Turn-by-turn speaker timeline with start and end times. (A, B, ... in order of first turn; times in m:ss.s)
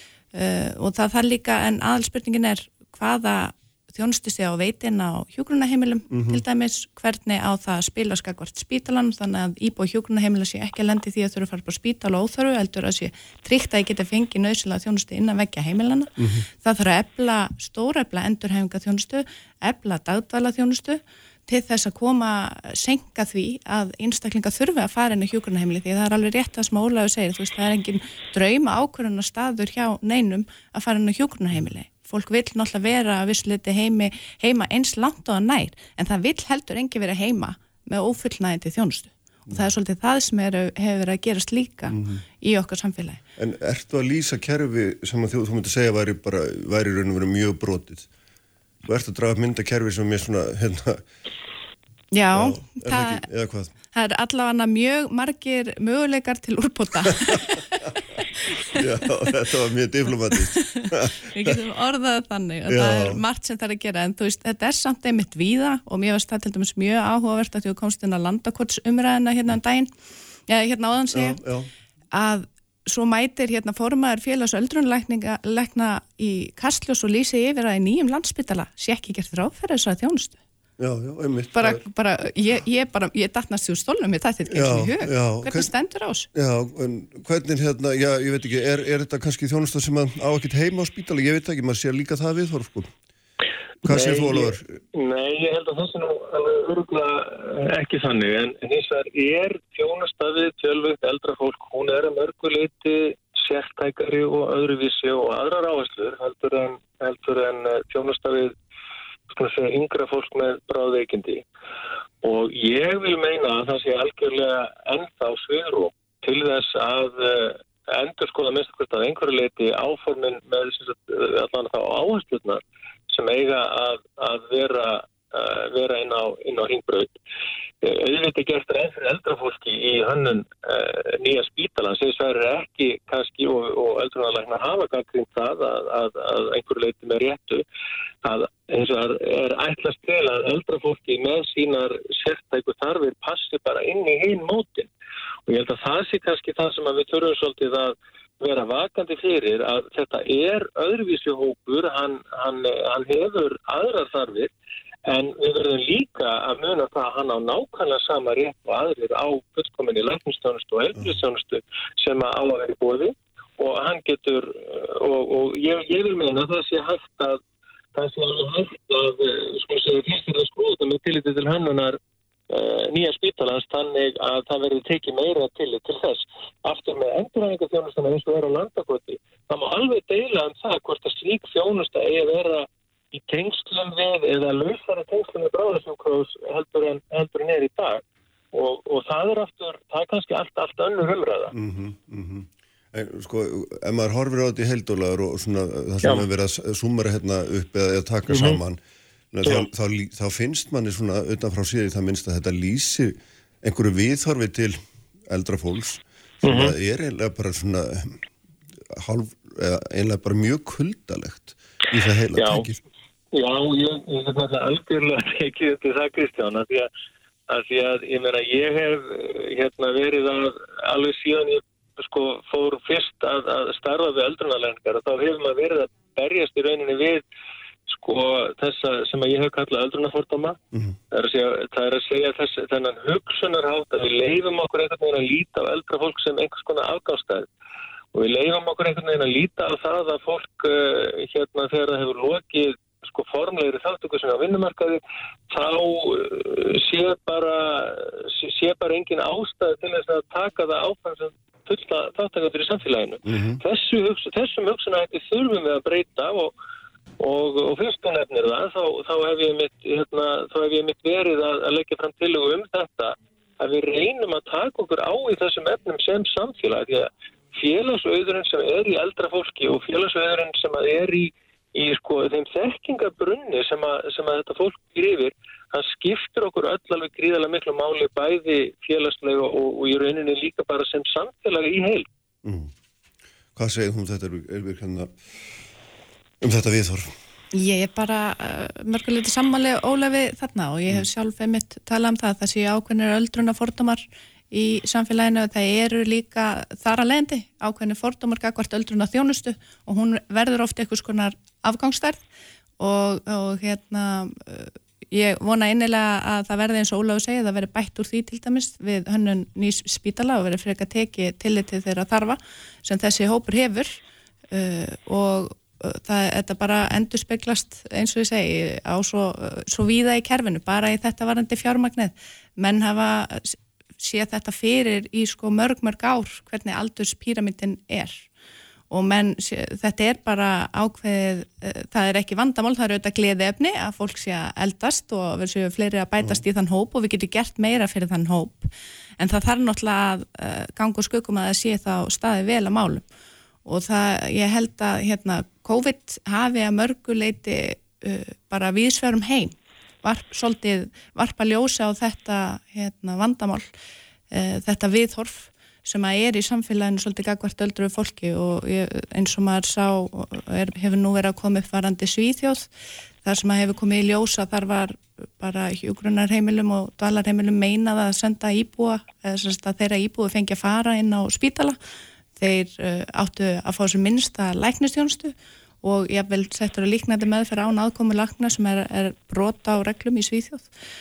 0:00.3-0:43.2 A
0:06.1-0:06.4 B
0:16.2-0:16.4 B
0:41.9-0:42.2 B
0:43.4-0:48.1 B
0:48.8-0:51.0 B
0:52.1-0:53.2 A
0:52.3-0:53.7 B
0:53.9-0:58.8 A
0:58.7-1:01.6 B
1:00.8-1:09.9 A
1:02.7-1:03.2 B
1:10.5-1:11.4 A
1:11.1-1:11.7 B
1:12.1-1:20.4 A
1:20.8-1:21.8 B
1:21.5-1:26.3 A
1:24.5-1:25.7 B
1:26.3-1:32.9 B
1:33.8-1:34.8 B
1:33.8-1:48.5 C
1:49.3-1:51.4 C
1:52.2-2:07.2 C
2:07.8-2:17.6 C
2:18.2-2:24.9 C
2:25.5-2:34.5 C
2:35.1-2:47.4 C
2:47.9-2:52.0 C
2:52.5-3:11.5 C
3:11.5-3:18.8 B
3:18.3-3:18.6 C
3:19.3-3:28.2 B
3:26.4-3:26.7 C
3:28.9-3:32.8 B
3:32.3-3:32.7 C
3:33.3-3:36.9 C
3:37.5-3:47.2 C
3:47.9-3:50.6 C
3:51.1-3:57.5 C
3:58.1-4:16.5 C
4:13.3-4:13.6 B
4:17.2-4:42.1 C
4:42.4-4:42.7 B
4:43.6-4:45.1 B
4:46.4-4:47.1 B
4:47.5-5:02.2 A
5:02.8-5:13.9 A
5:14.5-5:28.3 A
5:28.9-5:43.0 A
5:43.6-5:53.7 A
5:54.3-6:02.7 A
6:03.2-6:11.8 A
6:12.4-6:20.7 A